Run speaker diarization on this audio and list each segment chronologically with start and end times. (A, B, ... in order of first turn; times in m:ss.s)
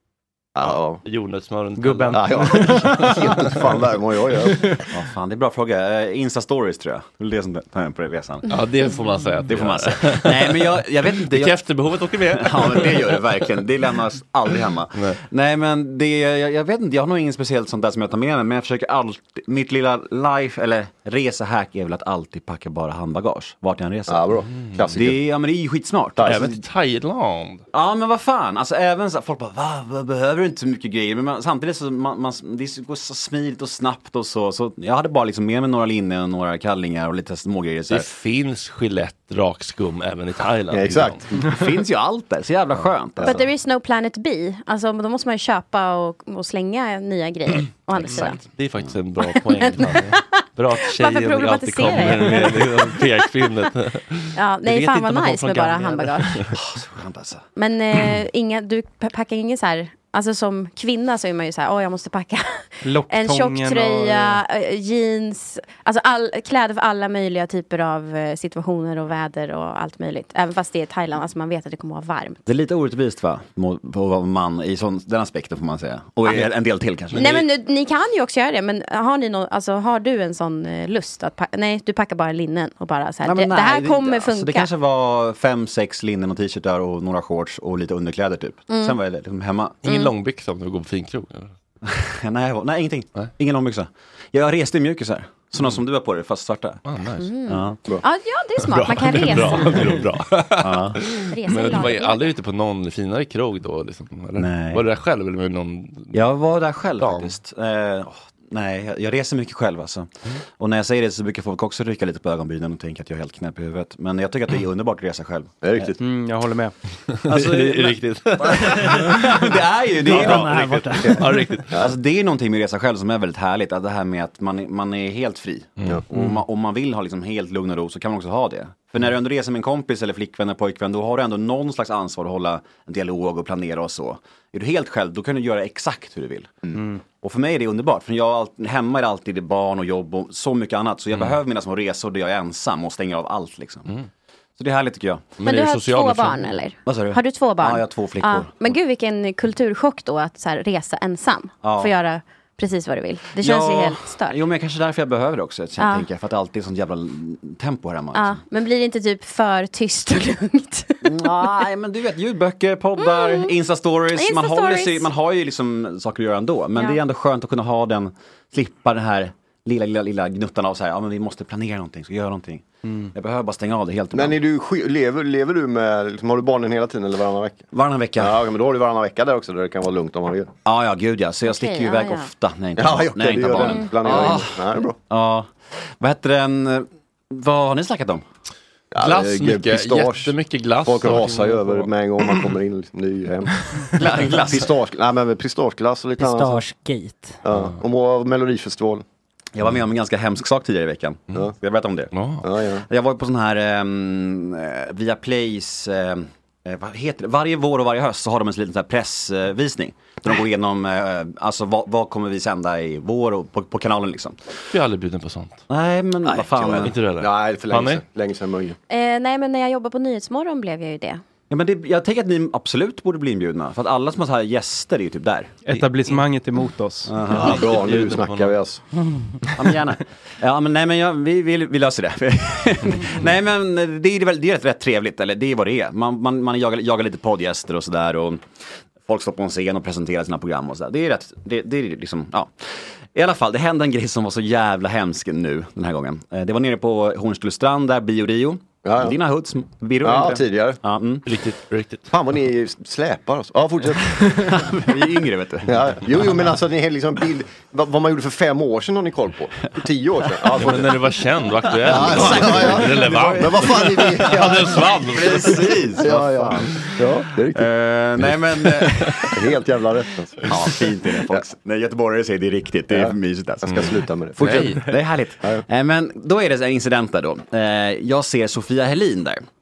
0:00.6-0:01.0 A
0:00.6-0:03.6 B
0:01.8-0:03.2 C
0:02.1-0:04.8 A
0:04.9-0:08.5 D
0:08.5-0:13.3 B
0:09.5-0:24.3 D
0:14.9-0:15.2 B
0:24.1-0:25.2 A
0:24.5-0:24.9 B
0:24.9-0:26.5 D
0:26.2-0:26.5 A
0:26.2-0:27.6 B
0:27.7-0:38.1 D
0:37.9-0:41.2 B
0:40.7-0:41.6 A
0:41.4-0:43.4 D
0:43.2-0:48.4 E
0:48.0-0:56.5 B
0:49.4-0:53.0 E
0:54.3-0:56.4 E
0:56.5-0:57.4 D
0:57.6-1:12.4 E
1:02.8-1:04.4 C
1:12.4-1:17.4 D
1:17.1-1:24.7 E
1:23.2-1:29.8 D
1:28.7-1:29.0 E
1:29.8-1:31.5 B
1:29.8-1:30.1 E
1:31.8-1:36.8 D
1:36.8-1:37.3 B
1:37.2-1:40.0 E
1:37.5-1:37.8 D
1:38.6-1:46.2 B
1:40.6-1:41.0 D
1:41.3-1:42.3 E
1:44.4-1:44.8 D
1:46.1-1:55.8 D
1:47.0-1:47.3 B
1:55.6-1:56.0 A
1:56.0-1:56.7 C
1:57.1-1:59.4 B
1:57.2-2:01.0 D
2:00.0-2:01.8 B
2:00.0-2:01.6 F
2:01.7-2:23.9 D
2:24.6-2:25.3 D
2:25.4-2:26.5 B
2:25.4-2:34.4 E
2:26.8-2:28.7 D
2:31.6-2:31.9 D
2:33.4-2:38.4 D
2:35.8-2:36.0 E
2:38.1-2:41.1 E
2:41.0-2:54.4 D
2:43.0-2:43.5 E
2:44.1-2:45.1 E
2:54.1-3:00.5 A
2:57.7-2:58.4 D
3:00.6-3:08.2 D
3:01.4-3:02.3 E
3:02.8-3:05.0 A
3:03.6-3:03.9 E
3:08.9-3:16.6 A
3:09.0-3:11.9 B
3:13.9-3:14.7 D
3:16.2-3:17.4 F
3:17.4-3:19.0 A
3:19.5-3:22.1 D
3:22.1-3:22.4 B
3:22.4-3:22.8 A
3:22.9-3:34.4 D
3:34.7-3:35.6 B
3:35.7-3:36.9 D
3:36.2-3:38.8 A
3:36.8-3:38.0 B
3:38.9-3:41.2 E
3:41.5-3:45.6 D
3:45.6-3:47.2 C
3:45.7-3:46.2 B
3:47.1-3:47.8 D
3:47.3-3:48.6 B
3:47.3-3:48.8 A
3:49.6-3:58.4 D
3:59.0-4:11.3 D
4:08.8-4:09.2 A
4:10.0-4:10.8 A
4:11.3-4:12.1 B
4:12.1-4:14.6 A
4:14.1-4:15.8 D
4:15.7-4:21.0 A
4:20.6-4:25.8 B
4:21.7-4:26.9 D
4:21.8-4:27.7 A
4:27.5-4:29.3 D
4:28.8-4:29.1 B
4:29.2-4:31.4 A
4:30.5-4:33.8 D
4:32.9-4:34.9 A
4:33.7-4:34.8 B
4:34.4-4:39.4 D